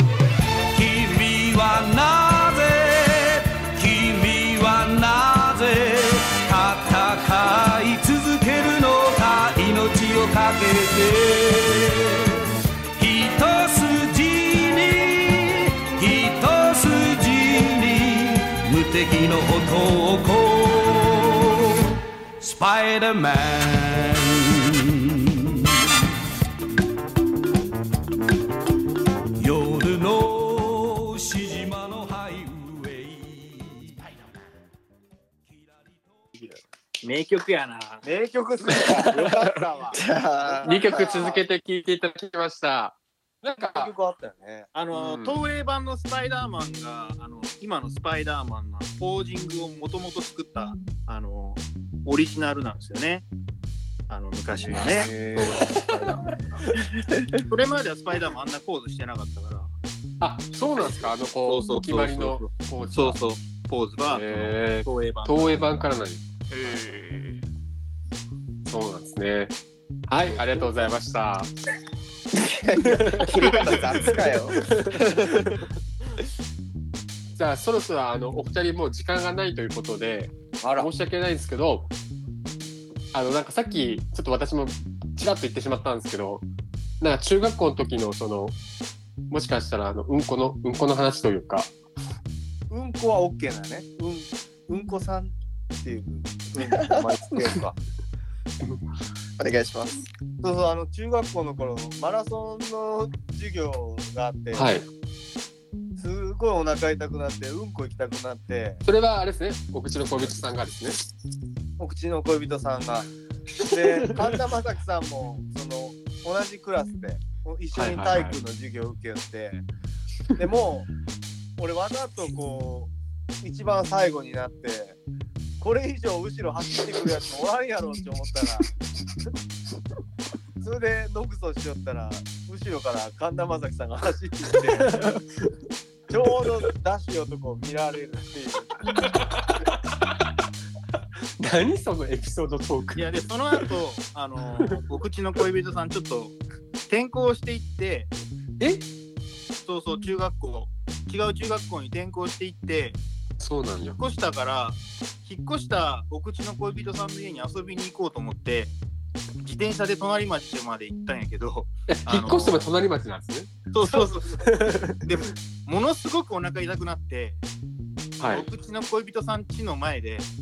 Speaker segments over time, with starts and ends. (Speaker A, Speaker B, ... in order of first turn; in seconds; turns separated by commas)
Speaker A: 0.7-25.9, Speaker A: 29.4-34.0, Speaker A: 35.5-36.4, Speaker B: 37.0-38.1, Speaker C: 38.0-41.5, Speaker D: 38.7-39.6, Speaker E: 39.9-41.4, Speaker D: 40.6-43.9, Speaker C: 43.7-44.7, Speaker B: 44.7-53.3, Speaker D: 44.9-45.4, Speaker B: 54.1-55.1, Speaker C: 54.6-57.1, Speaker D: 55.4-56.1, Speaker E: 57.1-57.4, Speaker B: 57.5-59.7, Speaker D: 60.2-63.2, Speaker B: 60.8-65.6, Speaker D: 64.0-66.8, Speaker F: 66.5-67.4, Speaker D: 68.7-69.5, Speaker D: 70.1-71.5, Speaker E: 72.3-75.6, Speaker D: 72.8-75.6, Speaker F: 73.4-74.4, Speaker D: 77.4-81.9, Speaker C: 80.6-80.9, Speaker D: 83.1-86.5, Speaker D: 87.0-88.6, Speaker D: 89.3-91.7, Speaker C: 92.7-97.8, Speaker E: 96.6-97.1, Speaker E: 99.4-100.0, Speaker C: 100.4-104.8, Speaker D: 104.5-104.9, Speaker C: 106.0-108.8, Speaker D: 108.9-111.0, Speaker C: 111.8-119.6, Speaker D: 113.7-114.2, Speaker D: 117.7-118.4, Speaker C: 120.4-120.9, Speaker C: 121.6-125.0, Speaker C: 125.6-128.7, Speaker C: 130.6-135.1, Speaker D: 134.8-135.5, Speaker C: 136.1-139.0, Speaker D: 139.7-140.1, Speaker D: 141.4-143.7, Speaker B: 143.0-148.1, Speaker D: 148.6-148.9, Speaker B: 149.6-153.0, Speaker D: 153.4-154.0, Speaker B: 153.9-158.8, Speaker B: 159.4-162.6, Speaker D: 161.9-163.5, Speaker B: 163.7-167.4, Speaker D: 164.4-165.0, Speaker D: 168.2-168.5, Speaker B: 168.3-170.3